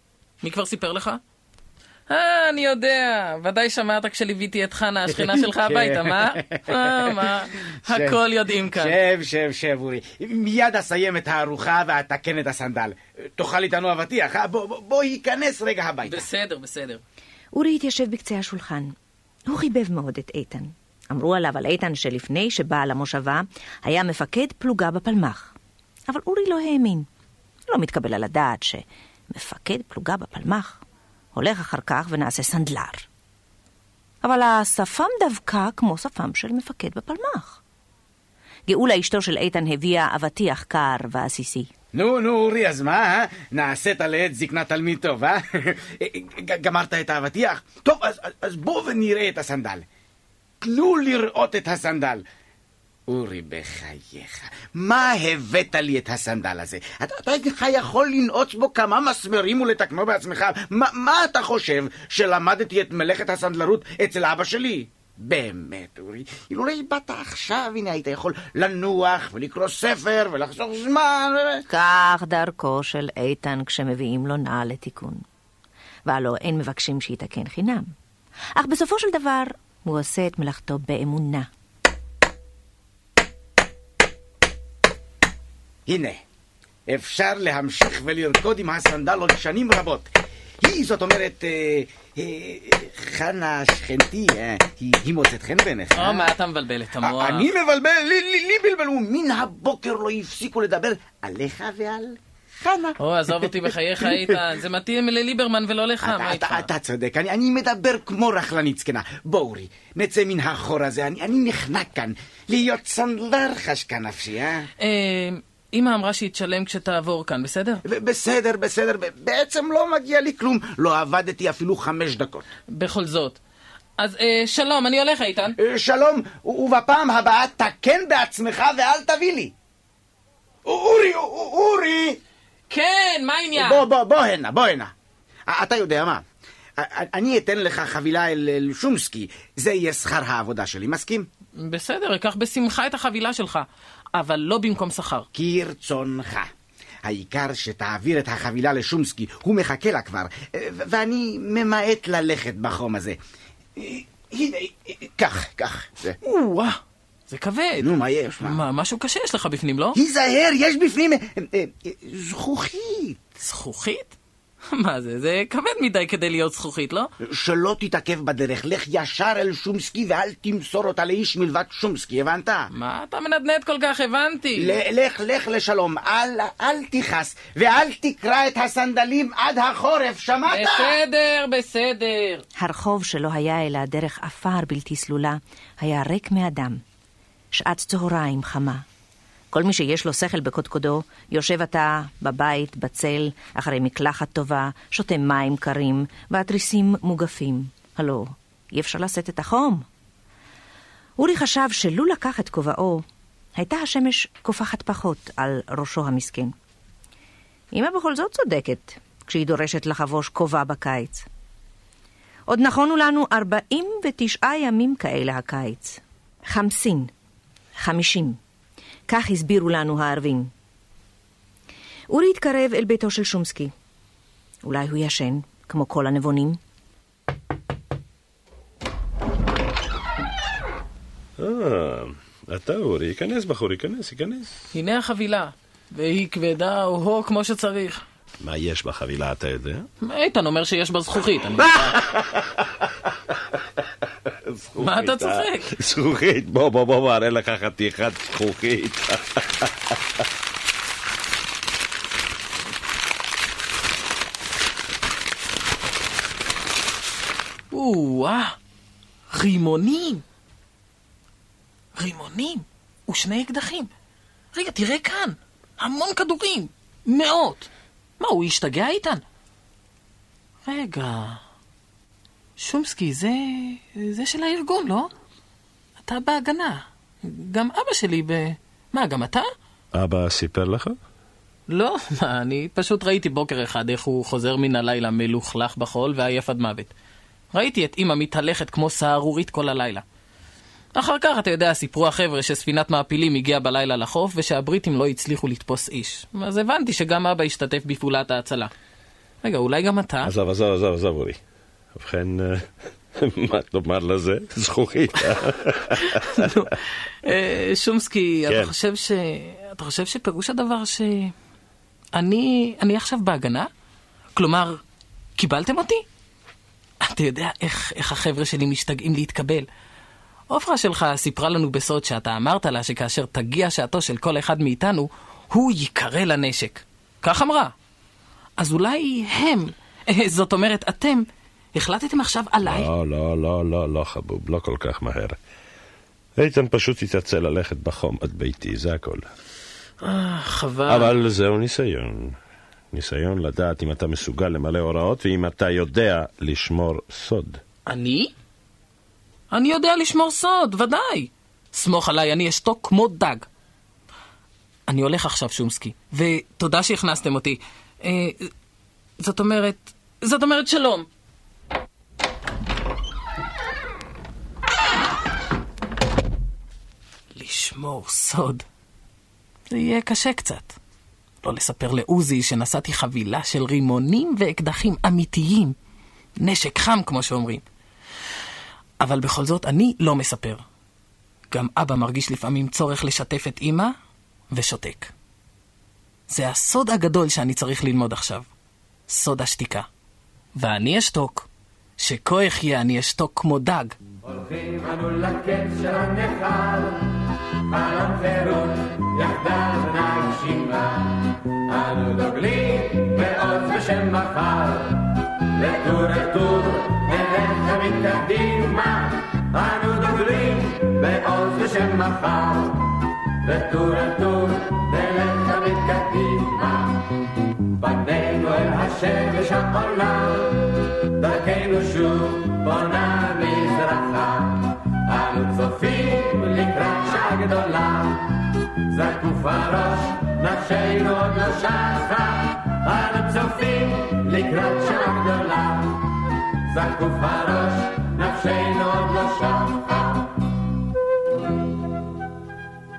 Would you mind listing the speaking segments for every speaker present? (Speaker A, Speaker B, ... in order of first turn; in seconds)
Speaker A: 0.4-1.2, 2.1-8.9, 16.1-17.0, 95.9-97.5, 103.0-106.7, 114.8-117.8, 122.7-123.4, 124.0-125.5, 132.7-133.8, 141.6-145.3, 156.2-160.0, 163.4-164.1, 164.7-167.1, 172.7-174.8, 180.5-182.4, 234.7-238.0, 240.0-242.0, 244.8-245.7, 257.7-258.6, 259.3-260.2, 262.0-263.9, 264.5-269.2, 270.6-271.4, 272.6-275.1, 276.0-279.5, 281.7-286.9, 287.5-290.0, 290.9-298.7, 299.4-300.3, 306.0-311.3, 312.1-313.7, 314.4-314.8, 315.4-316.1, 317.0-319.7, 320.5-327.7, 328.6-332.9, 340.0-341.1, 347.9-348.3, 349.5-353.5, 354.9-358.5, 359.2-361.1, 367.3-368.6, 369.7-370.8, 371.4-375.8, 376.4-377.6, 379.0-380.6, 381.5-383.9, 384.5-385.1, 386.3-388.5, 389.1-389.9, 390.6-391.5, 392.0-394.0
Speaker B: 5.2-7.3, 7.9-16.2, 41.9-49.9, 50.6-52.2, 53.1-71.6, 85.9-86.2, 86.9-90.1, 90.6-96.3, 97.0-104.2, 106.0-114.7, 117.9-122.5, 125.6-129.5, 130.7-132.2, 133.6-134.9, 135.5-136.2, 136.8-141.3, 145.3-146.5, 147.1-153.2, 153.8-156.2, 157.8-158.6, 160.0-163.2, 167.2-172.7, 174.6-181.0
Speaker C: 17.5-18.9, 19.5-25.5, 26.1-27.1, 27.7-30.8, 31.3-33.1, 34.2-37.6, 38.7-41.7, 71.7-75.2, 76.1-77.9, 78.6-81.5, 182.6-186.8, 187.5-188.8, 189.5-199.9, 201.2-206.6, 207.7-211.3, 212.5-217.1, 217.8-218.4, 219.1-220.5, 222.1-223.7, 224.6-226.6
Speaker D: 231.4-234.5, 238.4-239.9, 241.6-242.6, 244.5-249.4, 279.9-281.0, 300.2-301.4, 301.9-306.5, 308.5-308.7, 332.6-335.4, 336.4-339.3, 340.9-342.4, 342.9-347.6
Speaker E: 394.2-397.1, 397.7-417.1, 417.8-428.4, 428.9-436.1, 436.7-440.3